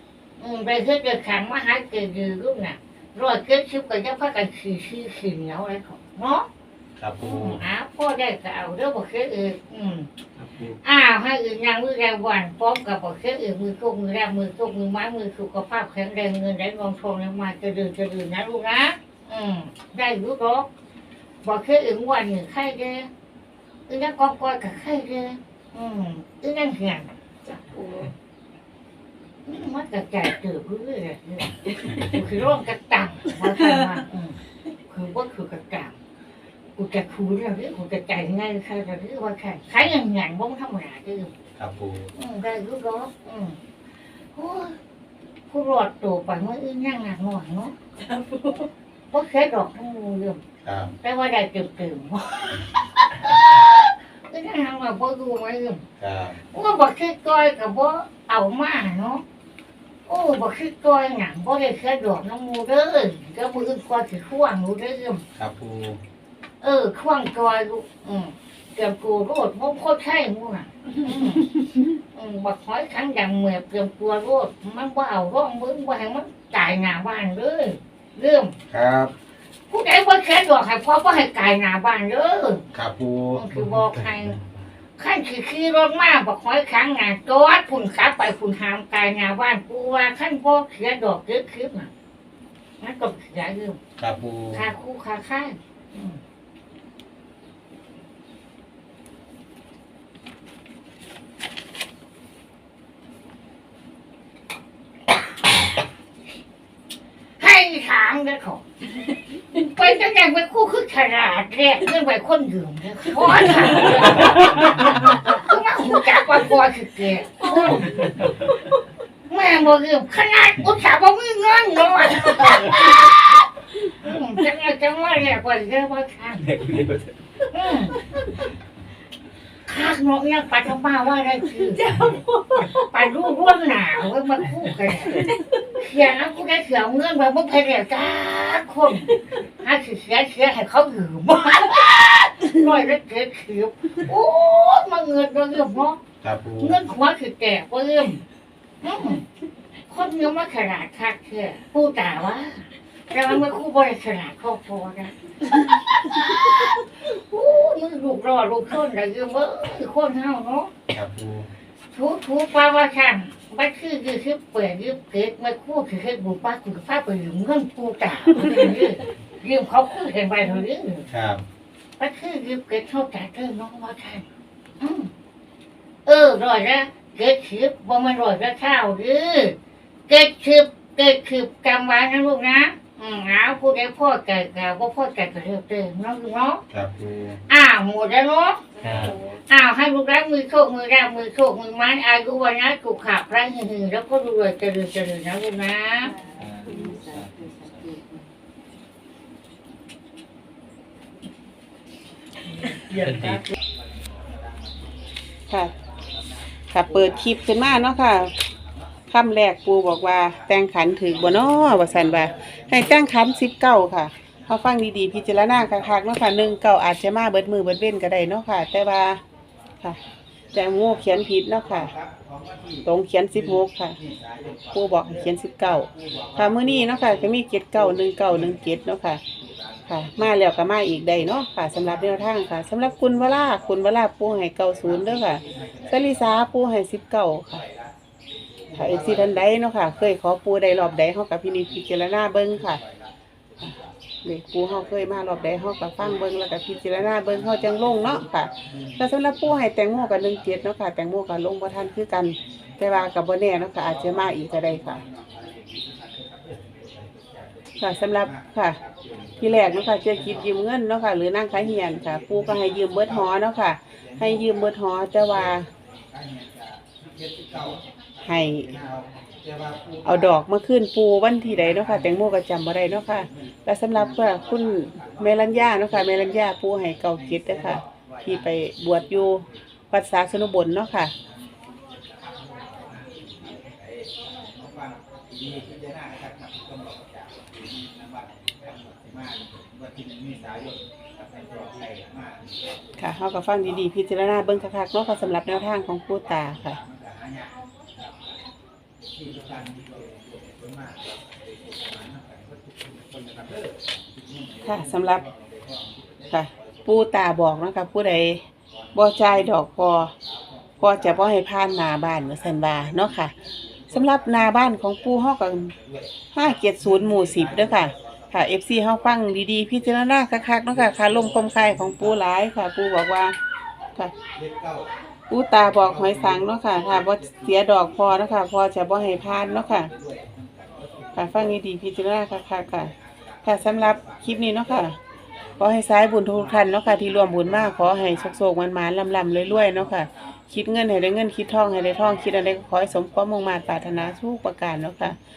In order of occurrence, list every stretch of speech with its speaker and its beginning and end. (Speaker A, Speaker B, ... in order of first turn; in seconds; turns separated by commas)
Speaker A: 0.4-6.5, Speaker B: 7.0-7.6, Speaker A: 7.2-10.1, Speaker C: 10.3-10.8, Speaker A: 10.8-20.7, Speaker A: 21.4-23.1, Speaker A: 23.9-27.1, Speaker D: 27.4-28.1, Speaker A: 29.4-34.4, Speaker A: 34.9-36.0, Speaker A: 36.8-41.3, Speaker B: 41.6-42.1, Speaker A: 42.1-43.6, Speaker A: 44.3-44.8, Speaker A: 45.5-47.7, Speaker D: 48.0-48.7, Speaker A: 49.1-50.4, Speaker B: 50.6-50.9, Speaker A: 51.0-55.8, Speaker B: 56.0-56.4, Speaker A: 56.4-59.2, Speaker A: 60.1-65.2, Speaker B: 65.4-66.0, Speaker A: 66.6-71.5, Speaker A: 72.1-78.5, Speaker B: 78.7-79.1, Speaker A: 79.7-82.7, Speaker B: 82.7-83.4, Speaker A: 83.3-84.4, Speaker A: 85.0-91.9, Speaker A: 92.8-93.8, Speaker B: 94.0-94.6, Speaker A: 94.5-96.2, Speaker A: 107.4-108.6, Speaker A: 109.5-118.0, Speaker C: 117.8-118.5, Speaker A: 119.3-126.4, Speaker D: 122.5-123.1, Speaker C: 126.4-127.1, Speaker A: 127.5-128.0, Speaker A: 129.6-131.8, Speaker D: 131.7-132.9, Speaker A: 132.8-146.0, Speaker B: 146.2-146.8, Speaker A: 146.6-148.2, Speaker A: 148.8-149.2, Speaker A: 149.9-160.7, Speaker B: 160.9-161.5, Speaker A: 161.9-171.1, Speaker B: 171.1-171.4, Speaker A: 172.0-174.2, Speaker A: 174.8-175.1, Speaker A: 176.0-179.6, Speaker A: 180.1-186.6, Speaker B: 186.7-187.4, Speaker A: 187.5-188.6, Speaker D: 188.8-189.4, Speaker C: 188.8-189.2, Speaker A: 189.5-196.1, Speaker D: 196.0-198.2, Speaker C: 196.3-197.9, Speaker D: 202.6-203.3, Speaker C: 202.9-203.4, Speaker E: 206.7-208.4, Speaker E: 209.1-219.2, Speaker E: 220.5-221.9, Speaker E: 222.8-224.0, Speaker E: 224.7-229.2, Speaker E: 229.9-237.6, Speaker E: 238.7-242.8, Speaker E: 243.6-255.0, Speaker E: 257.8-258.8, Speaker E: 259.4-265.7, Speaker B: 267.5-267.8, Speaker E: 268.2-268.8, Speaker E: 270.0-281.1, Speaker E: 293.0-296.8, Speaker E: 304.6-305.3, Speaker E: 306.3-308.4, Speaker E: 308.9-310.1, Speaker E: 310.8-313.3, Speaker E: 313.9-315.7, Speaker E: 316.3-323.4, Speaker E: 325.3-329.9, Speaker E: 331.1-332.9, Speaker E: 333.4-335.0, Speaker E: 335.6-345.2